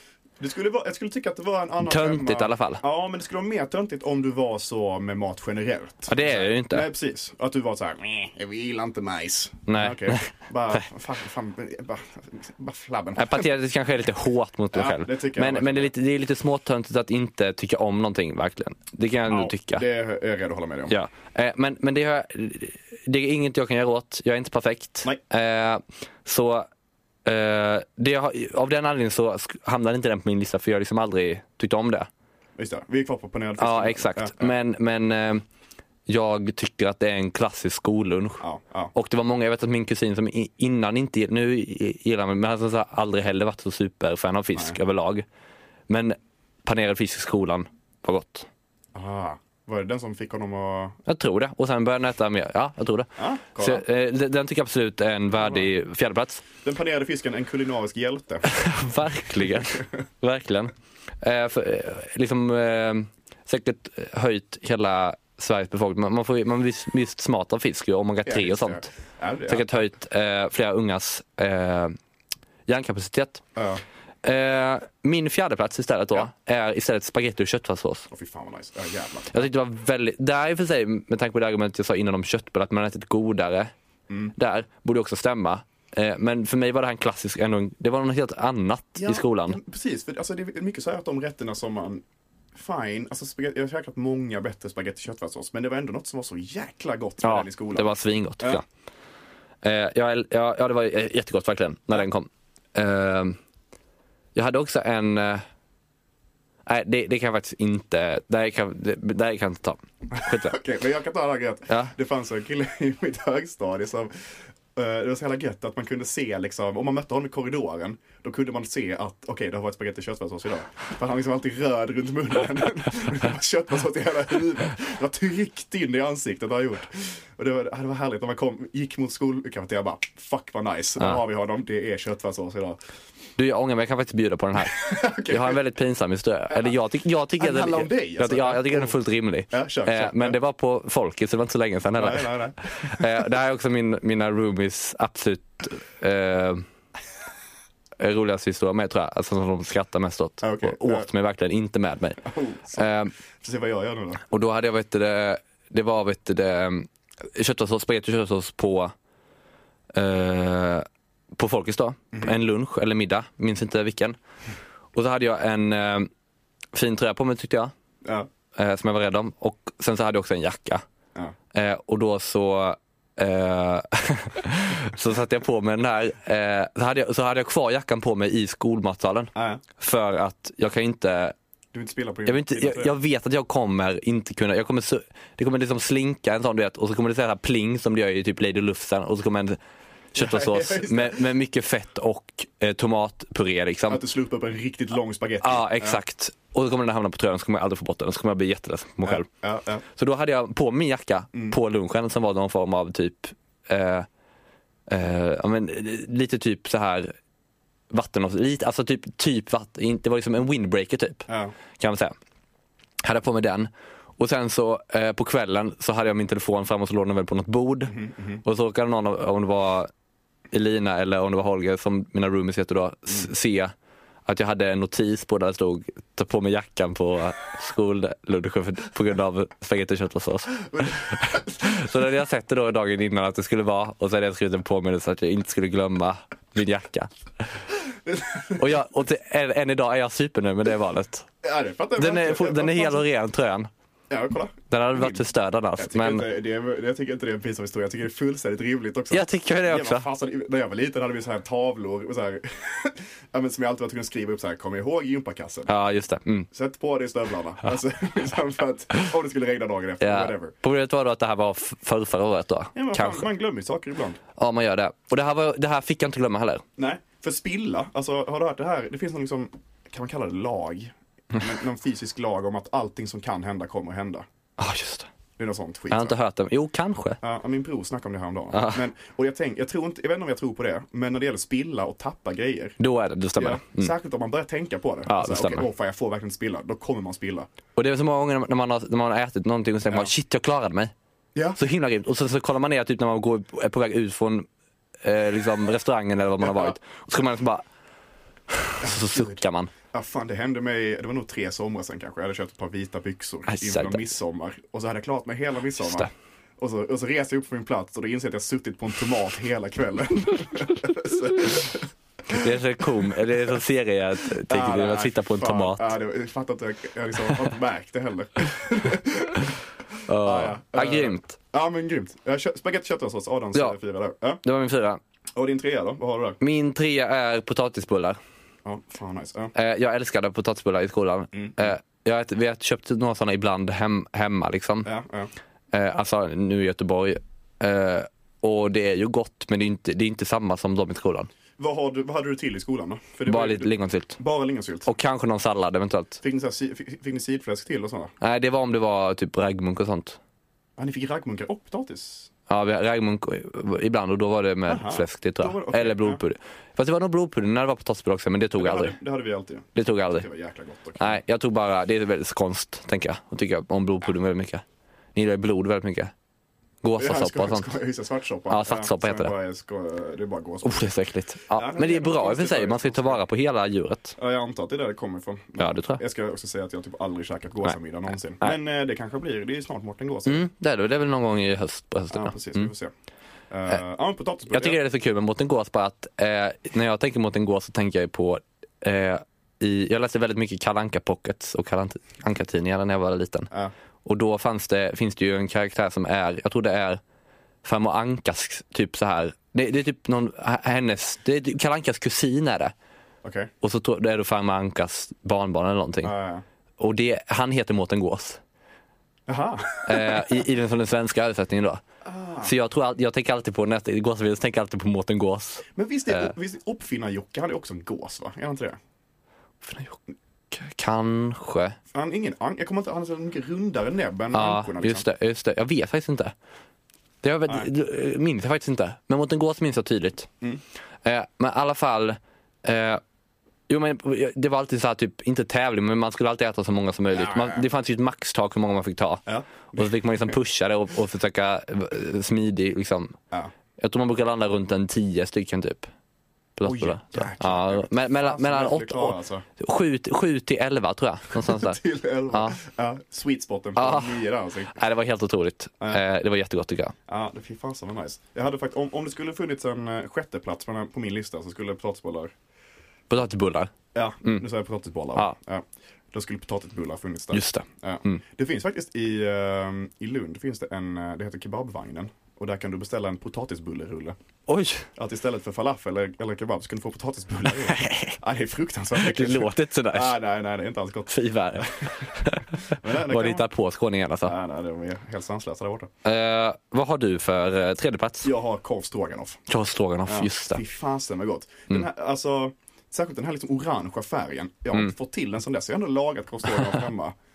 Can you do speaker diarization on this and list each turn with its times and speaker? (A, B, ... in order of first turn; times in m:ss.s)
0:00.4-0:13.5 A
0:01.8-0:02.8 B
0:06.1-0:06.9 B
0:09.7-0:10.8 B
0:13.2-0:19.8 B
0:14.7-0:15.9 A
0:19.3-0:20.9 A
0:20.9-0:26.7 B
0:27.2-0:32.1 B
0:32.6-0:34.5 A
0:33.6-0:35.4 B
0:36.1-0:45.3 B
0:38.4-0:38.9 A
0:45.9-0:48.5 B
0:48.9-0:51.0 A
0:51.1-0:56.4 B
0:53.2-0:53.8 A
0:55.3-0:55.7 A
0:56.6-0:58.5 A
0:58.5-1:08.9 B
0:59.4-0:59.9 A
1:08.3-1:09.8 A
1:09.5-1:12.0 B
1:12.7-1:13.4 B
1:13.6-1:13.8 A
1:14.2-1:18.1 B
1:18.1-1:19.5 A
1:19.3-1:23.7 B
1:24.1-1:24.3 A
1:24.4-1:29.6 B
1:29.0-1:38.6 A
1:37.2-1:38.6 B
1:39.6-1:43.4 B
1:44.4-1:45.4 B
1:46.7-1:50.6 B
1:50.2-2:12.8 A
2:13.4-2:26.6 B
2:14.6-2:15.6 A
2:17.4-2:19.0 A
2:19.5-2:20.4 A
2:22.0-2:23.3 A
2:28.0-2:33.1 B
2:30.4-2:31.1 A
2:32.2-2:34.2 A
2:34.3-2:38.9 B
2:39.9-2:44.2 B
2:44.9-2:46.1 B
2:46.7-2:47.7 B
2:48.0-2:48.3 A
2:48.6-2:50.8 B
2:51.5-3:01.4 B
2:59.4-2:59.6 A
3:01.7-3:02.9 A
3:02.3-3:09.6 B
3:10.1-3:14.0 B
3:10.2-3:11.3 A
3:13.9-3:16.0 A
3:15.4-3:19.3 B
3:19.0-3:19.8 A
3:19.9-3:24.1 B
3:24.9-3:27.1 B
3:27.9-3:32.1 B
3:31.3-3:31.6 A
3:33.0-3:39.9 B
3:37.9-3:38.4 A
3:40.5-3:43.7 B
3:44.3-3:57.5 B
3:50.7-3:51.8 A
3:57.9-3:58.8 A
3:58.6-4:01.3 B
4:01.4-4:03.1 A
4:02.0-4:03.7 B
4:04.1-4:05.2 A
4:04.7-4:06.3 B
4:05.8-4:15.7 A
4:09.1-4:10.1 B
4:15.7-4:16.5 B
4:16.5-4:20.5 A
4:20.0-4:23.3 B
4:22.8-4:24.2 A
4:24.4-4:26.6 B
4:26.8-4:34.3 A
4:34.6-4:35.1 B
4:35.4-4:36.2 A
4:35.9-4:37.2 B
4:37.2-4:42.8 A
4:38.5-4:38.8 B
4:42.8-4:43.9 B
4:43.4-4:47.5 A
4:45.1-4:45.7 B
4:47.8-4:50.9 B
4:51.6-4:54.5 B
4:55.0-4:57.6 B
4:56.4-4:56.7 A
4:58.5-4:59.7 B
4:58.8-4:59.4 A
4:59.9-5:13.1 A
5:03.5-5:04.1 B
5:05.8-5:06.1 B
5:12.3-5:15.9 B
5:14.4-5:24.4 A
5:20.1-5:21.4 B
5:24.4-5:25.0 B
5:25.4-5:26.4 A
5:26.4-5:28.2 B
5:28.6-5:29.5 A
5:29.5-5:34.9 B
5:31.3-5:31.7 A
5:34.8-5:35.3 A
5:35.7-5:41.3 B
5:41.6-5:44.9 A
5:43.3-5:44.2 B
5:44.9-5:46.2 B
5:46.2-5:48.1 A
5:48.2-5:50.2 B
5:50.8-5:52.3 A
5:52.5-5:59.0 B
5:54.7-5:56.2 A
5:58.6-6:01.2 A
5:59.8-6:00.3 B
6:01.0-6:04.6 B
6:05.2-6:06.1 B
6:06.8-6:07.7 B
6:07.0-6:10.9 A
6:08.5-6:09.3 B
6:10.6-6:14.2 B
6:11.5-6:13.2 A
6:14.2-6:20.5 A
6:15.6-6:16.0 B
6:20.3-6:22.7 B
6:22.1-6:22.9 A
6:23.5-6:24.8 A
6:24.5-6:33.5 B
6:34.0-6:37.0 B
6:37.6-6:42.7 B
6:43.2-6:43.5 A
6:43.6-6:46.1 B
6:46.0-6:46.4 A
6:46.8-6:48.4 B
6:49.3-6:50.4 A
6:49.9-6:51.8 B
6:52.0-6:52.5 A
6:52.4-6:56.3 B
6:55.8-6:58.8 A
6:59.6-7:00.0 B
7:00.5-7:01.8 B
7:01.9-7:05.1 A
7:04.3-7:06.3 B
7:07.2-7:10.3 B
7:11.0-7:13.0 B
7:13.7-7:23.2 B
7:17.1-7:17.6 A
7:19.3-7:20.4 A
7:23.8-7:25.9 B
7:26.6-7:31.8 B
7:26.6-7:29.4 A
7:31.4-7:34.8 A
7:32.3-7:32.6 B
7:33.8-7:34.2 B
7:34.7-7:37.0 B
7:37.1-7:42.3 A
7:43.1-7:43.7 B
7:43.9-7:54.2 A
7:47.3-7:48.2 B
7:54.5-7:54.9 B
7:55.0-8:03.5 A
7:57.6-7:58.2 B
7:59.0-8:00.2 B
8:01.1-8:04.3 B
8:04.2-8:05.9 A
8:06.0-8:08.3 B
8:08.2-8:09.4 A
8:09.5-8:10.6 B
8:10.1-8:17.2 A